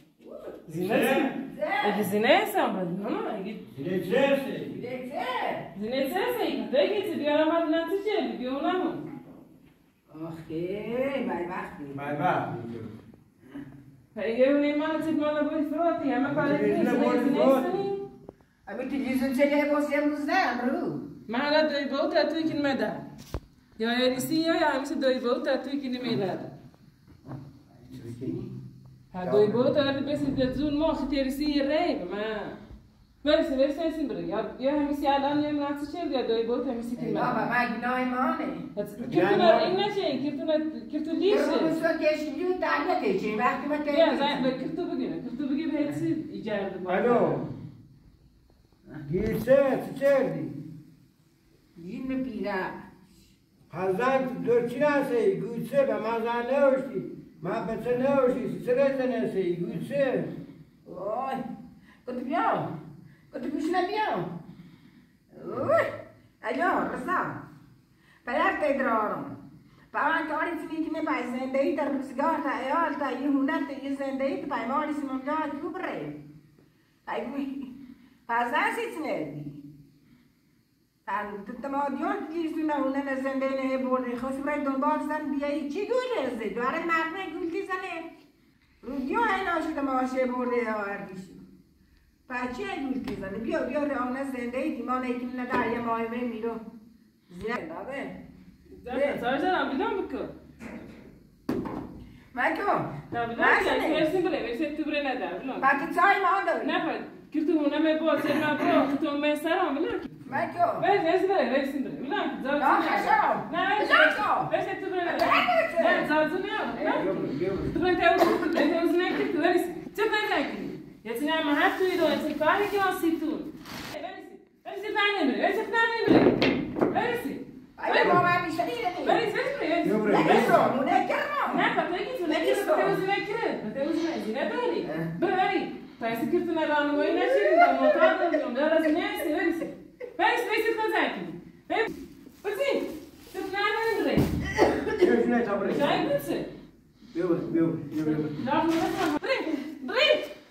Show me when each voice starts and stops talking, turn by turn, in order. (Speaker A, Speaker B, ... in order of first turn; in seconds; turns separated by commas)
Speaker A: 0.2-0.5, Speaker B: 0.7-3.6, Speaker C: 0.7-1.3, Speaker A: 1.4-2.1, Speaker C: 3.7-4.8, Speaker A: 4.7-5.7, Speaker B: 5.7-9.1, Speaker A: 10.1-12.0, Speaker C: 11.9-12.9, Speaker B: 14.1-18.1, Speaker C: 16.2-17.7, Speaker A: 18.6-21.0, Speaker B: 21.3-23.1, Speaker B: 23.8-26.5, Speaker A: 27.8-28.5, Speaker C: 27.9-28.4, Speaker B: 29.1-32.6, Speaker C: 29.2-29.7, Speaker B: 33.2-37.5, Speaker A: 37.0-38.6, Speaker B: 38.8-41.8, Speaker C: 39.0-39.8, Speaker A: 41.2-44.5, Speaker B: 43.9-47.4, Speaker C: 46.9-47.4, Speaker C: 49.0-50.6, Speaker A: 51.8-52.8, Speaker C: 53.7-60.3, Speaker A: 60.8-61.4, Speaker A: 62.0-62.7, Speaker A: 63.3-64.3, Speaker A: 65.3-65.8, Speaker A: 66.4-67.4, Speaker A: 68.2-69.4, Speaker A: 69.9-76.2, Speaker A: 77.1-77.7, Speaker A: 78.3-79.6, Speaker A: 81.1-88.1, Speaker A: 88.8-91.4, Speaker A: 92.3-96.6, Speaker A: 97.3-98.2, Speaker B: 98.8-100.3, Speaker A: 98.9-99.2, Speaker A: 102.3-104.1, Speaker B: 103.1-105.7, Speaker A: 105.6-106.8, Speaker B: 106.6-110.1, Speaker A: 110.2-110.9, Speaker B: 110.8-117.1, Speaker A: 112.5-114.5, Speaker A: 115.0-116.1, Speaker A: 116.8-117.3, Speaker C: 117.0-117.8, Speaker B: 117.7-128.2, Speaker A: 127.8-129.2, Speaker B: 129.0-130.3, Speaker C: 129.8-130.8, Speaker A: 130.1-131.7, Speaker B: 131.4-144.3, Speaker A: 132.2-133.0, Speaker A: 134.8-135.1, Speaker A: 137.3-138.2, Speaker C: 144.9-146.1, Speaker B: 145.6-146.5, Speaker C: 147.1-148.3, Speaker B: 148.0-150.3